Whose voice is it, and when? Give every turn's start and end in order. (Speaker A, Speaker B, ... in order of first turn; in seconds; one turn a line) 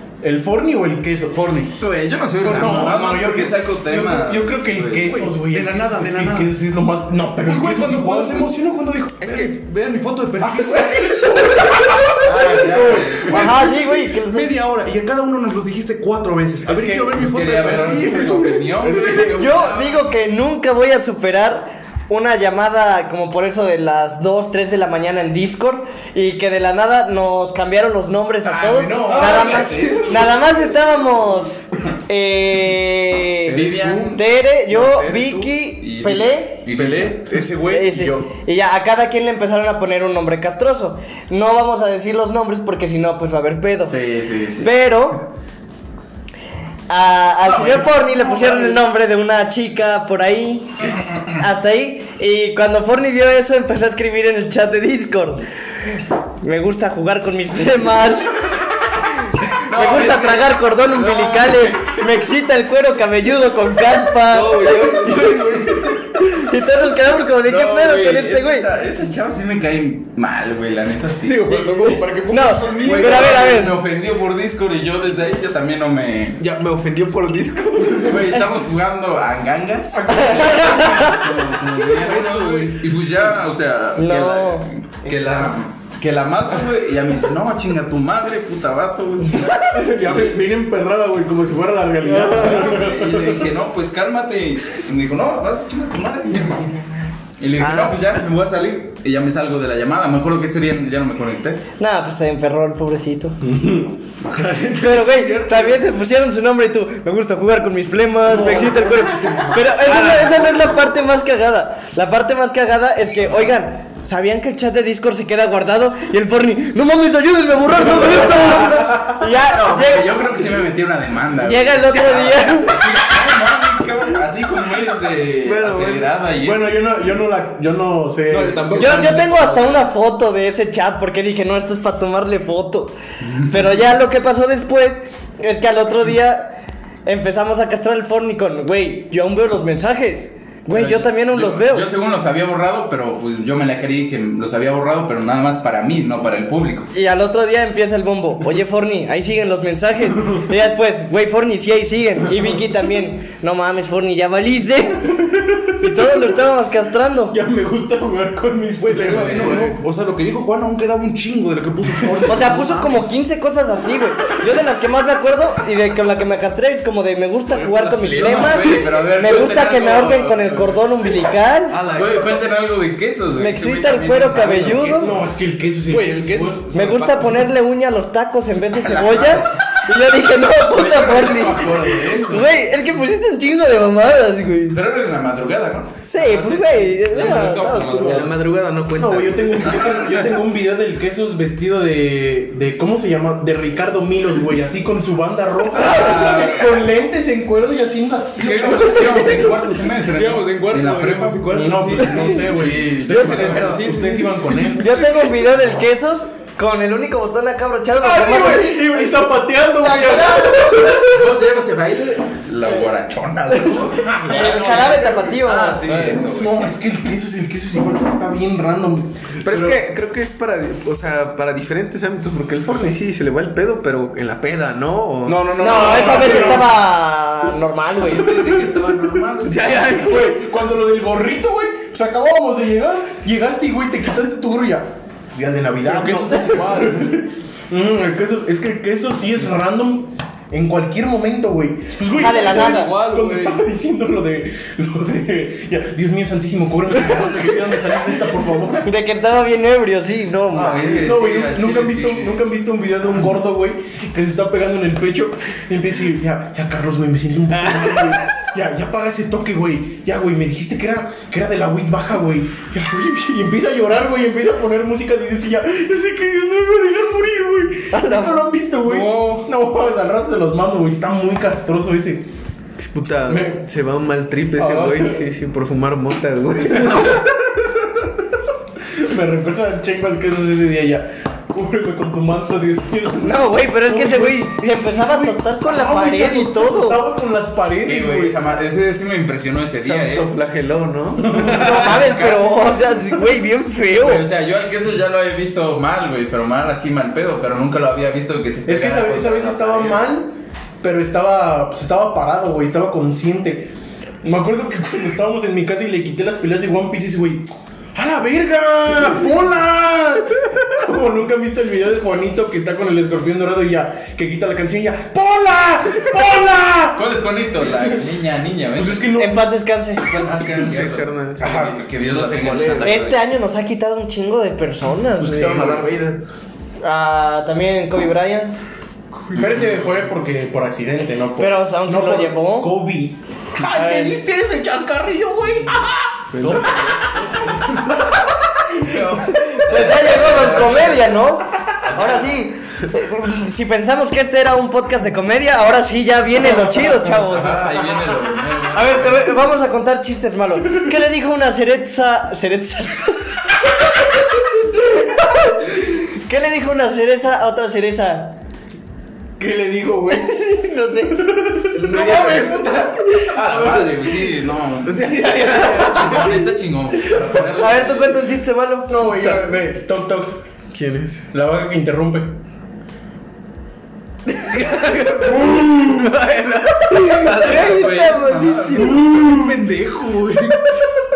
Speaker A: 0.2-1.5
Speaker B: 1.3-1.8
Speaker C: 1.8-5.1
Speaker A: 2.4-8.5
Speaker B: 5.0-6.5
Speaker B: 7.5-12.1
Speaker D: 9.2-9.5
Speaker A: 10.4-13.2
Speaker C: 12.2-13.6
Speaker B: 13.0-19.2
Speaker E: 13.2-14.6
Speaker A: 16.6-18.2
Speaker C: 17.1-20.1
Speaker A: 18.8-19.5
Speaker E: 19.3-36.7
Speaker B: 28.4-30.4
Speaker D: 29.1-30.4
Speaker C: 29.1-30.0
Speaker C: 33.5-34.2
Speaker B: 33.8-34.1
Speaker B: 34.8-35.5
Speaker C: 35.8-37.3
Speaker B: 36.7-38.3
Speaker E: 37.6-44.0
Speaker C: 43.9-44.7
Speaker E: 44.6-45.2
Speaker E: 46.9-55.4
Speaker C: 47.4-48.8
Speaker E: 56.4-58.4
Speaker C: 59.6-62.2
Speaker E: 59.6-68.7
Speaker D: 64.3-66.0
Speaker B: 64.6-65.8
Speaker C: 67.0-72.0
Speaker D: 71.2-72.7
Speaker B: 71.5-73.4
Speaker E: 72.3-73.8
Speaker C: 72.7-76.4
Speaker D: 76.4-78.4
Speaker C: 78.0-90.4
Speaker E: 80.1-81.2
Speaker D: 81.1-82.7
Speaker B: 82.0-82.7
Speaker E: 84.0-84.7
Speaker A: 89.7-93.5
Speaker C: 92.3-96.8
Speaker E: 92.3-92.6
Speaker C: 97.4-101.6
Speaker D: 97.6-98.2
Speaker E: 101.8-103.4
Speaker A: 103.4-104.8
Speaker B: 104.4-105.9
Speaker E: 104.8-120.3
Speaker B: 108.3-110.3
Speaker C: 117.9-126.8
Speaker E: 121.4-122.8
Speaker D: 125.4-126.1
Speaker A: 126.4-129.0
Speaker B: 128.3-129.8
Speaker E: 128.8-132.9
Speaker C: 133.2-133.8
Speaker E: 133.5-141.9
Speaker C: 140.7-146.9
Speaker E: 146.9-155.1
Speaker A: 155.2-155.7
Speaker E: 155.8-157.4
Speaker A: 157.3-159.8
Speaker B: 158.9-163.1
Speaker C: 159.0-159.8
Speaker E: 162.3-171.8
Speaker B: 167.5-168.7
Speaker C: 168.1-170.8
Speaker D: 171.7-172.4
Speaker C: 171.9-175.0
Speaker E: 173.4-175.1
Speaker B: 174.8-175.2
Speaker A: 175.0-176.6
Speaker B: 175.9-177.4
Speaker E: 176.7-184.8
Speaker C: 178.8-179.6
Speaker C: 180.5-182.5
Speaker C: 184.7-186.0
Speaker E: 186.0-188.3
Speaker D: 186.2-190.3
Speaker B: 186.4-188.3
Speaker C: 187.2-187.5
Speaker A: 188.9-199.6
Speaker C: 195.7-196.8
Speaker C: 198.4-204.2
Speaker B: 198.6-204.3
Speaker A: 201.5-205.0
Speaker E: 203.1-203.8
Speaker E: 204.8-209.1
Speaker A: 208.0-211.1
Speaker E: 209.8-211.0
Speaker C: 211.0-216.7
Speaker A: 214.2-215.2
Speaker E: 214.2-215.9
Speaker B: 214.4-214.8
Speaker A: 215.9-219.8
Speaker D: 219.4-226.6
Speaker A: 225.2-226.8
Speaker E: 225.6-228.4
Speaker C: 228.0-230.0
Speaker D: 229.4-230.4
Speaker A: 230.0-248.9
Speaker B: 235.8-237.2
Speaker E: 242.2-242.9
Speaker D: 242.2-243.6
Speaker B: 243.1-243.5
Speaker E: 248.8-251.1
Speaker C: 250.5-252.4
Speaker A: 250.7-272.3
Speaker E: 267.9-268.5
Speaker B: 268.9-269.4
Speaker D: 272.8-277.2
Speaker A: 273.3-273.6
Speaker A: 274.5-275.3
Speaker A: 276.6-278.1
Speaker A: 278.9-288.4
Speaker E: 283.2-287.0
Speaker C: 287.9-290.3
Speaker D: 289.8-292.1
Speaker A: 291.2-291.8
Speaker E: 291.4-294.2
Speaker C: 291.6-292.8
Speaker C: 294.0-299.9
Speaker A: 298.7-303.7
Speaker A: 304.2-317.0
Speaker C: 316.9-319.1
Speaker A: 318.8-319.5
Speaker E: 319.1-320.1
Speaker C: 320.1-323.2
Speaker D: 320.1-321.7
Speaker B: 321.4-322.9
Speaker D: 322.3-323.0
Speaker E: 322.8-325.8
Speaker B: 325.2-326.2
Speaker E: 326.8-328.6
Speaker C: 329.3-330.0
Speaker A: 329.3-337.9
Speaker E: 331.4-332.7
Speaker B: 333.6-334.5
Speaker E: 333.7-334.1
Speaker D: 336.3-337.1
Speaker C: 338.8-341.1
Speaker E: 339.3-347.6
Speaker C: 347.1-349.3
Speaker E: 348.7-353.3
Speaker E: 354.7-358.4
Speaker A: 359.4-360.3
Speaker E: 360.1-362.7
Speaker A: 361.2-361.7
Speaker D: 361.8-364.3
Speaker B: 361.8-363.2
Speaker C: 363.2-368.2
Speaker D: 364.9-366.5
Speaker E: 367.6-369.5
Speaker A: 368.9-370.4
Speaker D: 370.7-371.3
Speaker A: 371.3-372.4
Speaker D: 374.3-377.8
Speaker A: 375.5-375.8
Speaker E: 376.9-379.1
Speaker C: 377.4-379.0
Speaker B: 378.8-380.7
Speaker A: 379.1-379.6